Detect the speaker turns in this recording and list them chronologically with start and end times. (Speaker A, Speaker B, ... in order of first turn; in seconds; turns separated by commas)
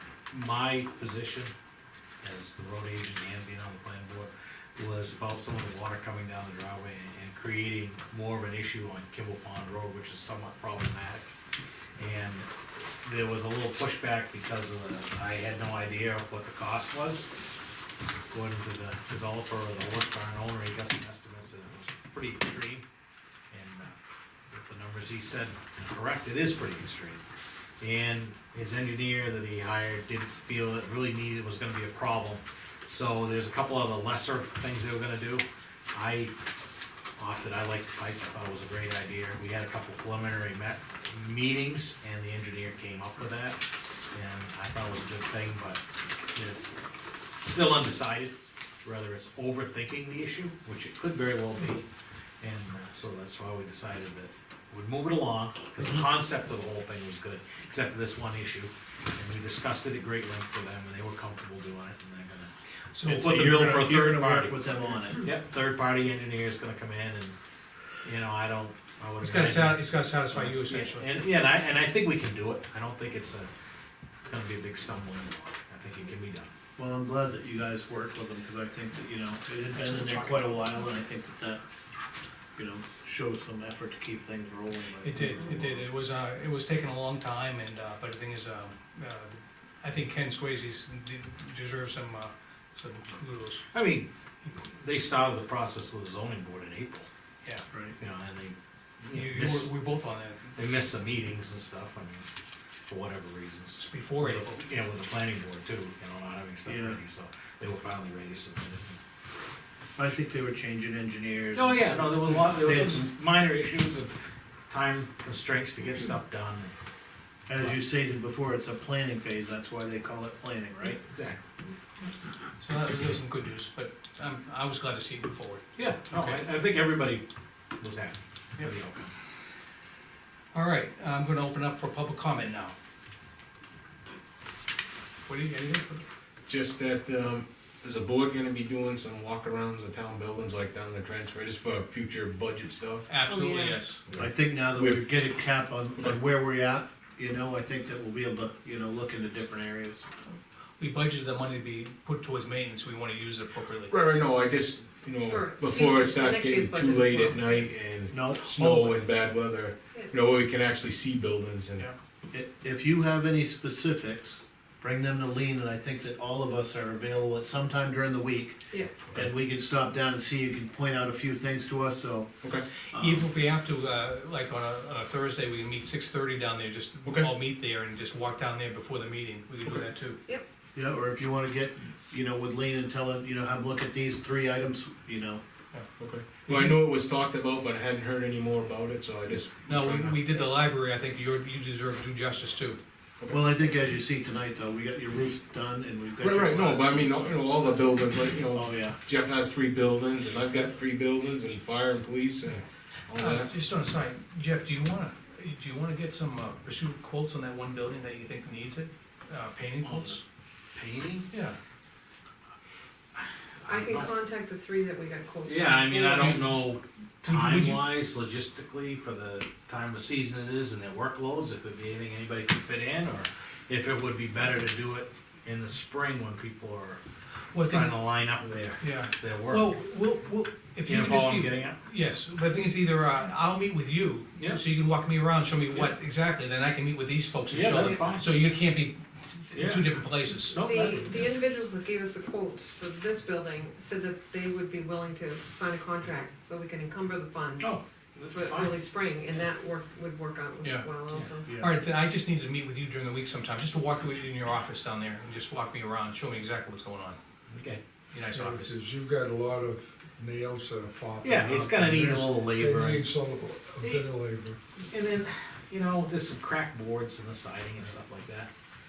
Speaker A: 0.3-1.5, Speaker A: 2.2-11.3, Speaker A: 12.0-12.4, Speaker A: 13.0-17.3, Speaker A: 18.3-22.8, Speaker A: 23.5-24.0, Speaker A: 24.5-27.2, Speaker A: 27.8-36.3, Speaker A: 37.2-46.6, Speaker A: 47.5-51.8, Speaker A: 52.4-62.5, Speaker B: 62.9-63.3, Speaker C: 63.0-65.3, Speaker A: 63.0-64.6, Speaker A: 65.2-67.3, Speaker A: 68.0-73.5, Speaker B: 69.2-71.1, Speaker A: 74.3-76.5, Speaker C: 76.8-81.6, Speaker B: 79.8-80.8, Speaker C: 82.5-85.8, Speaker B: 85.0-93.7, Speaker A: 93.7-97.1, Speaker C: 97.7-98.0, Speaker A: 98.0-99.7, Speaker B: 99.1-100.6, Speaker A: 100.5-102.2, Speaker A: 102.9-109.0, Speaker B: 103.8-104.6, Speaker C: 106.6-107.0, Speaker C: 110.0-113.1, Speaker A: 111.5-114.1, Speaker A: 114.7-116.7, Speaker C: 117.5-121.0, Speaker A: 121.0-121.5, Speaker B: 122.6-126.4, Speaker A: 125.8-127.2, Speaker A: 127.8-129.1, Speaker B: 130.5-132.7, Speaker B: 135.3-136.0, Speaker D: 136.5-143.1, Speaker B: 143.1-144.0, Speaker E: 143.2-143.8, Speaker D: 144.1-145.0, Speaker C: 144.2-150.0, Speaker B: 150.8-153.9, Speaker D: 153.9-161.9, Speaker E: 155.3-157.7, Speaker C: 158.1-159.0, Speaker C: 162.3-168.6, Speaker C: 169.1-172.3, Speaker C: 172.9-173.2, Speaker B: 172.9-180.2, Speaker D: 177.0-177.3, Speaker C: 180.7-185.4, Speaker D: 186.0-190.4, Speaker B: 186.4-186.8, Speaker B: 189.7-192.8, Speaker C: 193.3-197.8, Speaker D: 196.2-203.5, Speaker C: 198.5-199.0, Speaker B: 203.1-210.2, Speaker A: 209.8-210.2, Speaker A: 210.7-211.3, Speaker B: 211.3-211.6, Speaker A: 213.2-214.1, Speaker E: 213.7-216.3, Speaker A: 215.4-227.0, Speaker B: 216.1-216.6, Speaker B: 217.2-217.9, Speaker B: 227.5-228.1, Speaker A: 227.7-229.7, Speaker B: 228.8-240.6, Speaker A: 230.8-231.8, Speaker A: 237.5-238.3, Speaker A: 239.5-241.4, Speaker E: 240.6-247.8, Speaker A: 247.6-248.8, Speaker E: 248.3-251.5, Speaker B: 250.6-250.9, Speaker C: 251.4-251.8, Speaker B: 251.6-257.2, Speaker A: 257.5-257.8, Speaker B: 258.1-258.7, Speaker F: 258.3-264.6, Speaker A: 261.2-263.1, Speaker A: 263.8-264.1, Speaker A: 264.9-268.5